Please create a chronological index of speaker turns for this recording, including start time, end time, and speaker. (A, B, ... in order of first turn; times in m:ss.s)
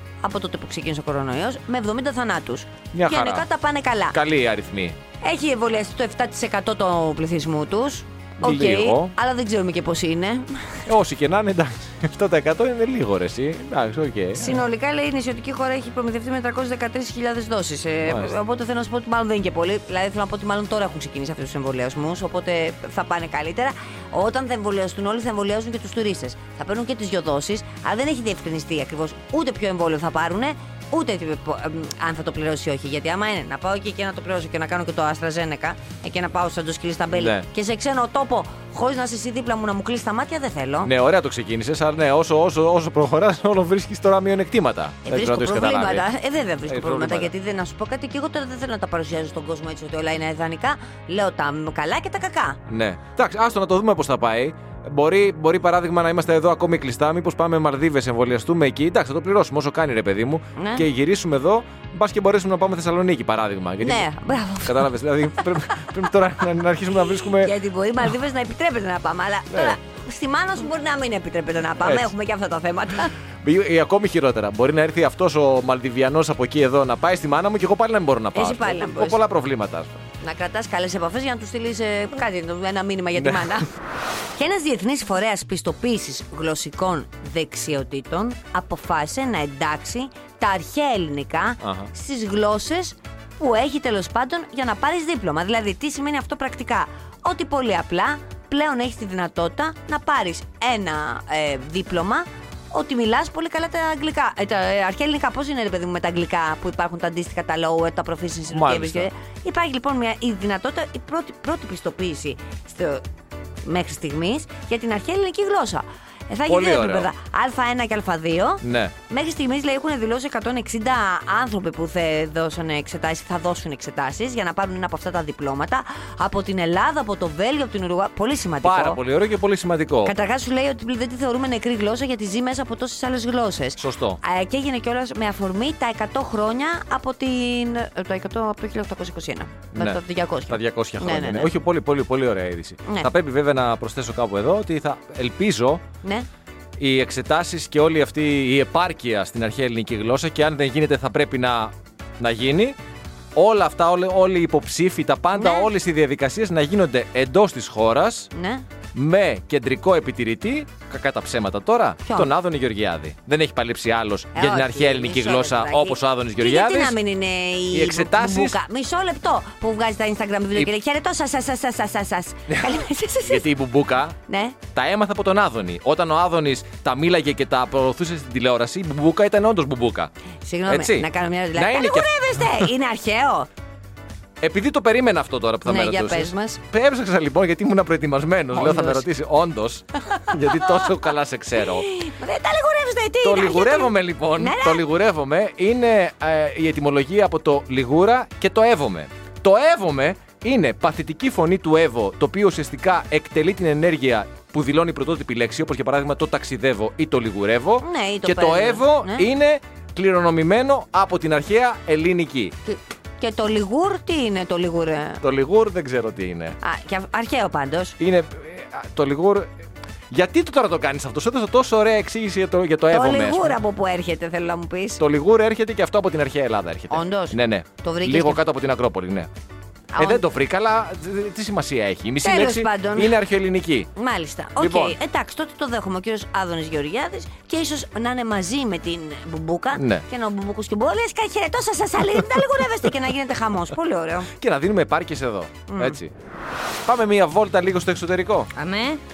0:00.2-0:04.2 A
0:02.9-0:03.5 B
0:04.1-0:05.0 B
0:05.2-0:10.9 A
0:08.4-0:09.1 B
0:10.9-0:14.6 B
0:14.4-0:40.9 A
0:18.0-0:18.3 B
0:37.1-0:37.5 B
0:40.8-0:46.0 B
0:45.0-0:52.6 A
0:46.6-0:47.3 B
0:52.7-1:04.1 B
1:00.6-1:00.9 A
1:03.8-1:04.9 A
1:04.6-1:07.6 B
1:07.2-1:13.1 A
1:09.5-1:09.8 B
1:11.8-1:12.1 B
1:13.4-1:19.9 B
1:18.3-1:19.2 A
1:20.2-1:23.8 A
1:23.2-1:23.5 B
1:24.3-1:53.0 A
1:31.6-1:31.9 B
1:48.5-1:49.1 B
1:53.6-2:09.0 A
1:56.5-1:57.1 B
1:58.6-1:58.9 B
2:08.6-2:10.1 B
2:10.0-2:21.5 A
2:13.8-2:14.2 B
2:19.8-2:25.8 B
2:22.8-2:23.1 A
2:26.8-2:32.8 B
2:33.4-2:38.3 B
2:35.4-2:35.7 A
2:38.3-2:38.6 A
2:38.9-2:47.0 B
2:42.0-2:42.3 A
2:44.4-2:53.5 A
2:47.7-2:48.6 B
2:52.5-2:54.2 B
2:54.3-2:54.6 A
2:54.7-3:00.1 B
3:00.4-3:03.5 A
3:00.7-3:02.7 B
3:04.4-3:11.9 B
3:05.6-3:06.6 A
3:08.5-3:09.1 A
3:10.2-3:10.8 A
3:11.7-3:14.8 A
3:13.2-3:32.6 B
3:27.8-3:29.3 A
3:32.6-3:35.2 A
3:35.2-3:36.6 B
3:36.6-3:38.0 A
3:38.0-3:39.5 B
3:40.1-3:43.6 B
3:42.9-3:45.0 A
3:45.0-3:49.3 B
3:46.9-3:48.4 A
3:49.9-3:50.2 A
3:50.0-3:53.9 B
3:52.2-3:53.2 A
3:54.0-4:04.3 A
3:54.6-3:55.0 B
3:59.8-4:00.0 B
4:04.3-4:06.1 B
4:05.7-4:06.0 A
4:06.8-4:08.5 B
4:08.6-4:09.0 A